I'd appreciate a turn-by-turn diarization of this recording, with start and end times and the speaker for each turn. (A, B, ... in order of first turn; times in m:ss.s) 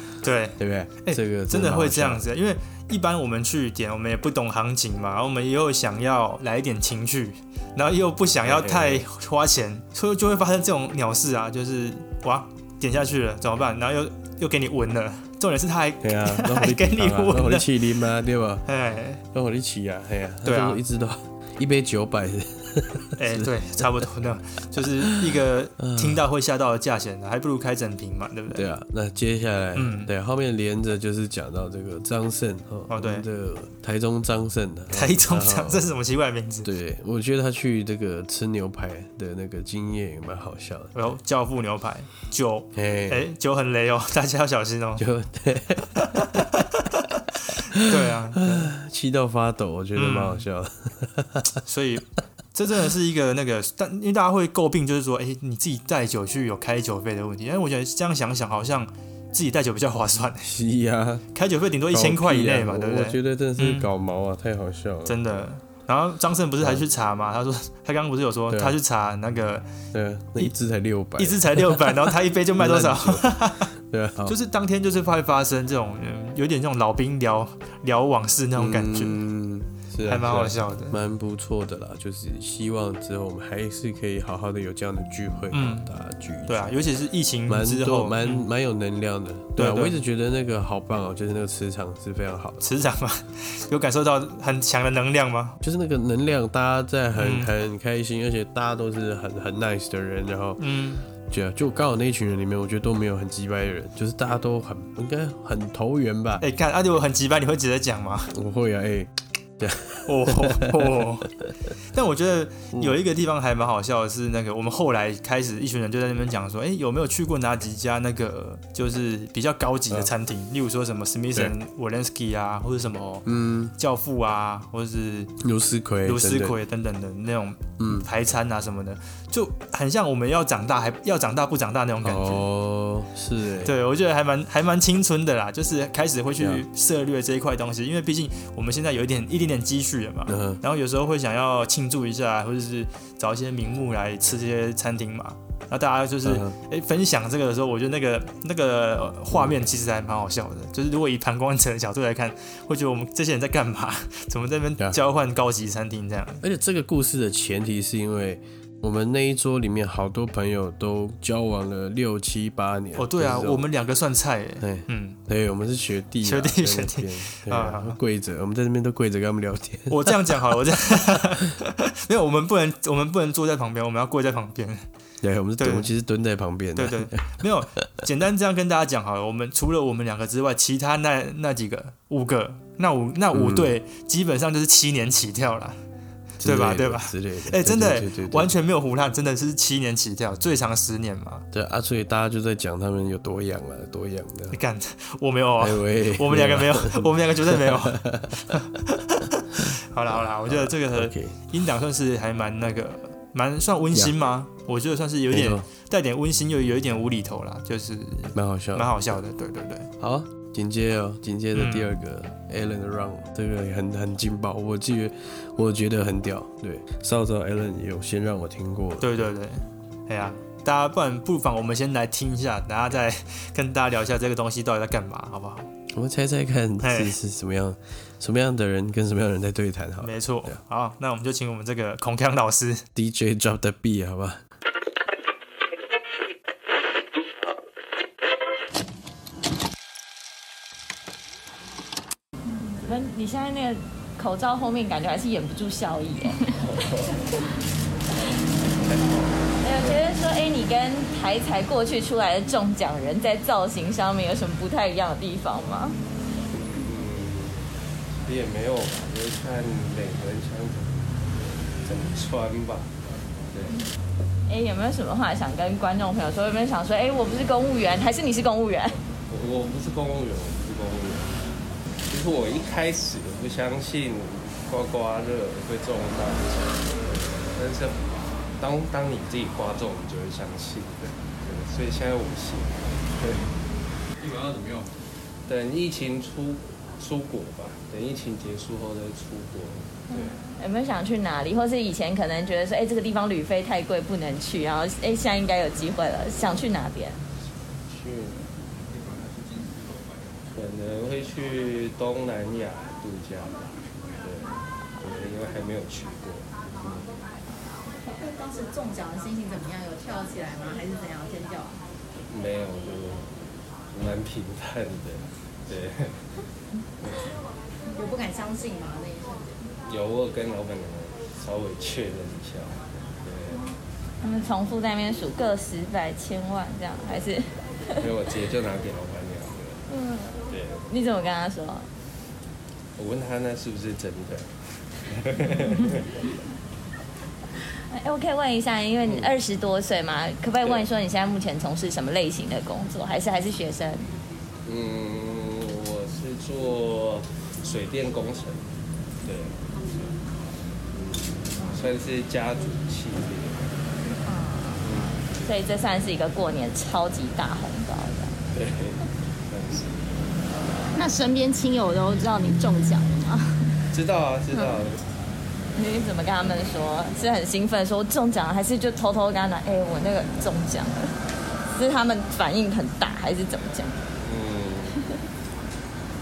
0:00.2-0:17.7 A
0:00.6-0:02.3 B
0:08.4-0:09.0 B
0:16.0-0:18.6 B
0:18.7-0:19.2 A
0:19.3-0:23.8 B
0:20.4-0:20.8 A
0:23.2-0:28.7 A
0:25.1-0:26.2 B
0:28.5-0:35.9 B
0:29.8-0:30.1 A
0:32.9-0:33.2 A
0:34.9-0:36.7 A
0:36.6-0:40.9 B
0:40.9-0:45.0 A
0:42.7-0:43.2 B
0:45.0-0:46.5 B
0:46.0-0:48.7 A
0:47.8-0:51.6 B
0:50.0-0:50.4 A
0:51.6-1:00.5 A
1:00.4-1:01.2 B
1:01.3-1:03.9 A
1:01.9-1:05.4 B
1:05.0-1:09.6 A
1:08.5-1:08.8 B
1:09.9-1:14.4 B
1:11.2-1:13.7 A
1:14.2-1:19.2 A
1:18.6-1:26.8 B
1:20.0-1:21.0 A
1:25.5-1:25.9 A
1:26.5-1:28.4 A
1:27.5-1:32.7 B
1:29.6-1:30.0 A
1:32.6-1:35.6 A
1:35.6-1:46.4 B
1:37.2-1:37.5 A
1:40.6-1:41.0 A
1:46.4-1:48.3 A
1:48.3-1:51.1 B
1:50.0-1:51.3 A
1:51.9-2:05.3 A
1:52.7-1:53.0 B
2:03.2-2:03.7 B
2:05.4-2:06.6 B
2:06.0-2:12.4 A
2:07.8-2:08.1 B
2:12.0-2:13.7 B
2:13.6-2:36.4 A
2:16.4-2:16.6 B
2:20.3-2:20.6 B
2:26.2-2:26.6 B
2:36.4-2:43.7 B
2:43.0-2:45.2 A
2:44.6-2:50.4 B
2:46.2-2:48.0 A
2:49.9-2:54.8 A
2:55.2-2:57.4 B
2:55.6-2:55.9 A
2:56.7-3:05.8 A
3:03.3-3:03.7 B
3:06.4-3:08.5 B
3:06.4-3:11.4 A
3:11.5-3:14.6 B
3:14.5-3:29.9 A
3:15.6-3:18.6 B
3:20.1-3:21.4 B
3:25.3-3:25.6 B
3:28.3-3:29.2 B
3:30.0-3:39.2 B
3:31.5-3:31.9 A
3:39.0-3:45.7 A
3:45.9-3:50.6 B
3:46.8-3:47.1 A
3:50.0-3:52.8 A
3:52.9-3:54.4 B
4:02.6-4:06.4 C
4:06.5-4:07.2 D
4:08.7-4:10.0 D
4:09.6-4:16.0 C
4:16.5-4:17.6 D
4:18.2-4:21.2 D
4:21.8-4:22.9 D
4:23.5-4:23.8 D
4:24.5-4:29.0 C
4:29.3-4:31.4 D
4:32.1-4:43.5 D
4:44.3-4:44.8 D
4:45.5-4:50.4 D
4:50.1-4:57.2 C
4:57.8-4:58.4 D
5:00.5-5:07.1 D
5:08.1-5:11.8 E
5:12.3-5:13.4 D
5:13.9-5:16.2 D
5:17.0-5:17.3 D
5:18.0-5:19.7 E
5:19.8-5:23.7 D
5:24.2-5:27.5 C
5:28.0-5:29.8 D
5:29.9-5:31.9 C
5:30.5-5:30.8 D
5:33.0-5:34.5 D
5:35.1-5:36.1 D
5:37.9-5:44.1 C
5:39.0-5:39.4 D
5:40.6-5:40.9 D
5:44.6-5:48.7 D
5:49.2-5:50.2 D
5:50.9-5:53.8 D
5:54.3-5:54.8 C
5:54.8-5:55.3 D
5:55.4-5:58.4 C
5:58.5-6:00.2 D
6:00.9-6:03.7 F
6:03.9-6:05.0 D
6:05.7-6:11.1 C
6:11.7-6:14.0 C
6:14.2-6:15.0 D